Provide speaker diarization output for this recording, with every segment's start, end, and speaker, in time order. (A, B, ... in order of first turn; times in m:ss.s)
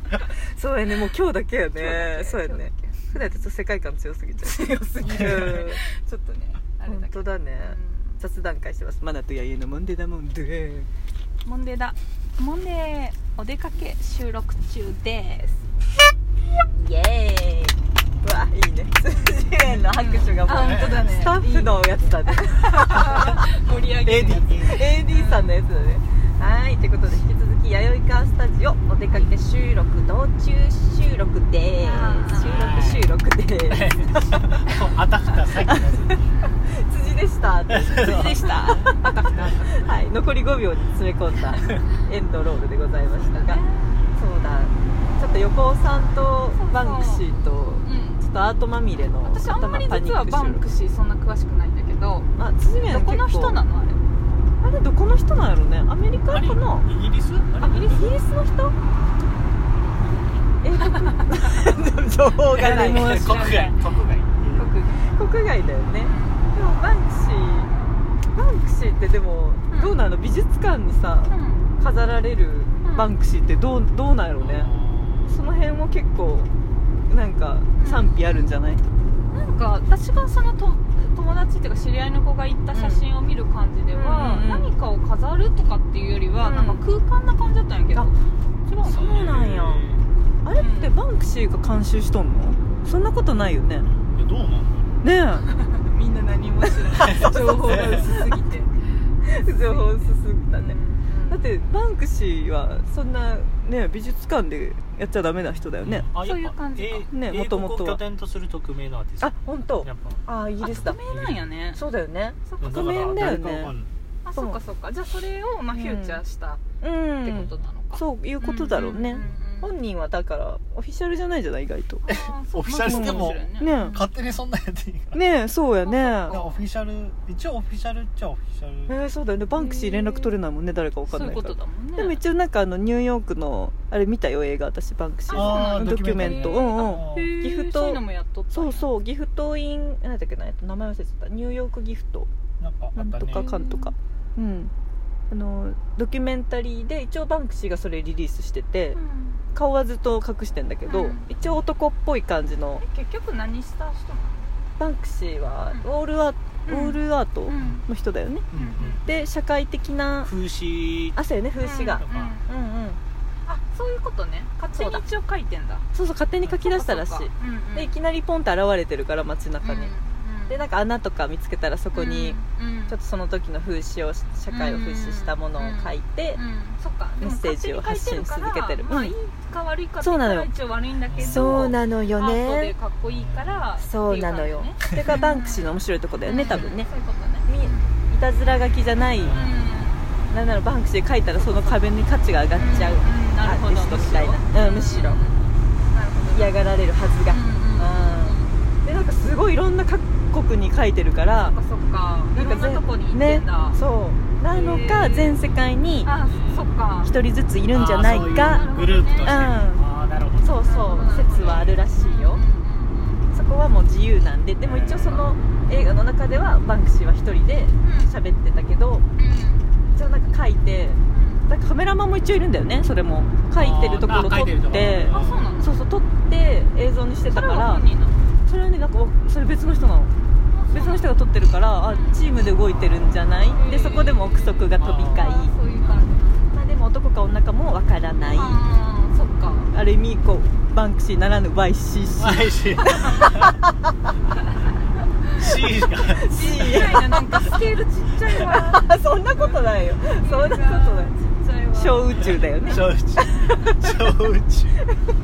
0:00.4-0:05.8 A
0:01.8-0:03.4 B
0:04.4-0:08.2 B
0:05.0-0:05.4 C
0:06.9-0:10.9 A
0:11.4-0:15.7 B
0:16.7-0:23.4 A
0:19.7-0:25.6 B
0:20.5-0:21.1 C
0:24.0-0:24.8 C
0:24.5-0:34.6 A
0:31.8-0:32.6 B
0:32.4-0:33.1 C
0:33.7-0:36.4 C
0:35.7-0:36.0 A
0:36.6-0:43.6 A
0:37.7-0:39.9 C
0:37.9-0:39.4 B
0:43.4-0:44.0 B
0:44.1-0:50.6 A
0:46.5-0:48.2 B
0:49.2-0:54.0 B
0:52.4-0:53.6 A
0:54.6-0:56.9 A
0:56.3-0:58.0 C
0:57.6-0:58.1 B
0:57.6-0:58.8 A
1:00.6-1:03.6 A
1:00.8-1:01.1 B
1:02.5-1:04.7 C
1:02.6-1:03.8 B
1:04.6-1:07.7 A
1:04.6-1:05.0 B
1:06.0-1:06.5 B
1:08.4-1:14.7 A
1:09.7-1:10.0 B
1:11.3-1:11.7 B
1:12.8-1:13.1 B
1:14.4-1:15.4 C
1:15.3-1:16.5 A
1:17.1-1:18.8 A
1:17.8-1:18.1 B
1:19.3-1:28.2 B
1:22.7-1:23.0 A
1:23.9-1:24.7 A
1:26.4-1:26.8 A
1:28.7-1:29.2 B
1:28.8-1:30.0 C
1:28.9-1:29.9 A
1:30.4-1:33.9 A
1:30.6-1:31.0 B
1:34.1-1:35.0 C
1:35.0-1:35.5 A
1:35.5-1:41.4 B
1:37.0-1:38.2 A
1:37.0-1:38.0 C
1:39.2-1:46.1 A
1:45.8-1:51.5 C
1:46.2-1:47.1 B
1:47.1-1:48.0 A
1:49.2-1:51.0 A
1:50.6-1:51.8 B
1:51.7-1:53.8 A
1:52.5-1:53.0 B
1:52.6-1:53.9 C
1:54.2-1:56.6 B
1:55.8-1:56.2 A
1:56.8-2:02.0 A
1:57.2-1:59.7 B
1:59.2-1:59.4 C
2:02.0-2:04.1 B
2:02.1-2:05.2 C
2:02.8-2:04.1 A
2:05.1-2:06.4 A
2:05.8-2:06.6 B
2:06.3-2:09.0 C
2:08.9-2:22.3 A
2:09.6-2:10.3 B
2:11.1-2:12.2 B
2:15.3-2:18.9 B
2:15.3-2:17.4 C
2:22.6-2:23.5 C
2:23.0-2:24.7 A
2:23.3-2:23.9 B
2:25.3-2:29.0 A
2:29.0-2:29.4 B
2:29.5-2:32.8 A
2:30.8-2:31.3 B
2:32.8-2:34.6 B
2:34.8-2:38.5 A
2:36.7-2:37.8 B
2:37.6-2:37.8 C
2:38.5-2:39.0 C
2:38.5-2:39.0 B
2:39.0-2:40.3 A
2:40.2-2:41.2 C
2:41.2-2:43.0 A
2:41.6-2:42.4 B
2:41.9-2:42.4 C
2:43.5-2:45.9 B
2:44.8-2:45.0 A
2:45.9-2:49.9 A
2:46.7-2:47.9 B
2:49.6-2:50.6 B
2:50.5-2:56.4 A
2:51.9-2:53.0 B
2:54.5-3:05.7 B
2:57.2-2:59.1 A
3:00.0-3:00.5 A
3:01.1-3:01.7 C
3:01.2-3:02.7 A
3:03.0-3:03.7 C
3:03.8-3:06.9 A
3:06.2-3:07.9 B
3:07.5-3:09.4 A
3:09.2-3:09.6 C
3:09.3-3:10.1 B
3:10.3-3:15.2 A
3:11.4-3:11.9 B
3:12.6-3:16.6 B
3:16.3-3:21.6 A
3:17.3-3:18.6 B
3:21.5-3:23.8 B
3:22.3-3:26.1 A
3:24.5-3:25.4 B
3:26.0-3:27.2 B
3:26.2-3:26.8 C
3:27.0-3:28.7 A
3:27.7-3:30.6 C
3:28.2-3:29.5 B
3:29.2-3:29.8 A
3:30.4-3:32.4 A
3:30.5-3:33.2 B
3:33.3-3:39.0 A
3:34.6-3:35.2 C
3:37.8-3:38.1 B
3:39.2-3:39.7 B
3:39.9-3:47.8 A
3:41.1-3:41.5 B
3:43.5-3:45.5 C
3:45.1-3:45.7 B
3:47.3-3:48.2 B
3:48.5-3:50.1 A
3:50.5-3:51.1 B
3:50.7-3:55.5 A
3:51.9-3:52.2 B
3:53.5-3:56.6 B
3:54.8-3:55.3 C
3:56.5-3:58.6 A
3:58.3-3:59.7 B
3:59.7-4:03.5 A
4:02.2-4:03.6 C
4:05.3-4:07.0 C
4:06.2-4:07.6 A
4:06.2-4:13.4 B
4:08.3-4:11.1 A
4:11.8-4:14.0 A
4:12.2-4:14.8 C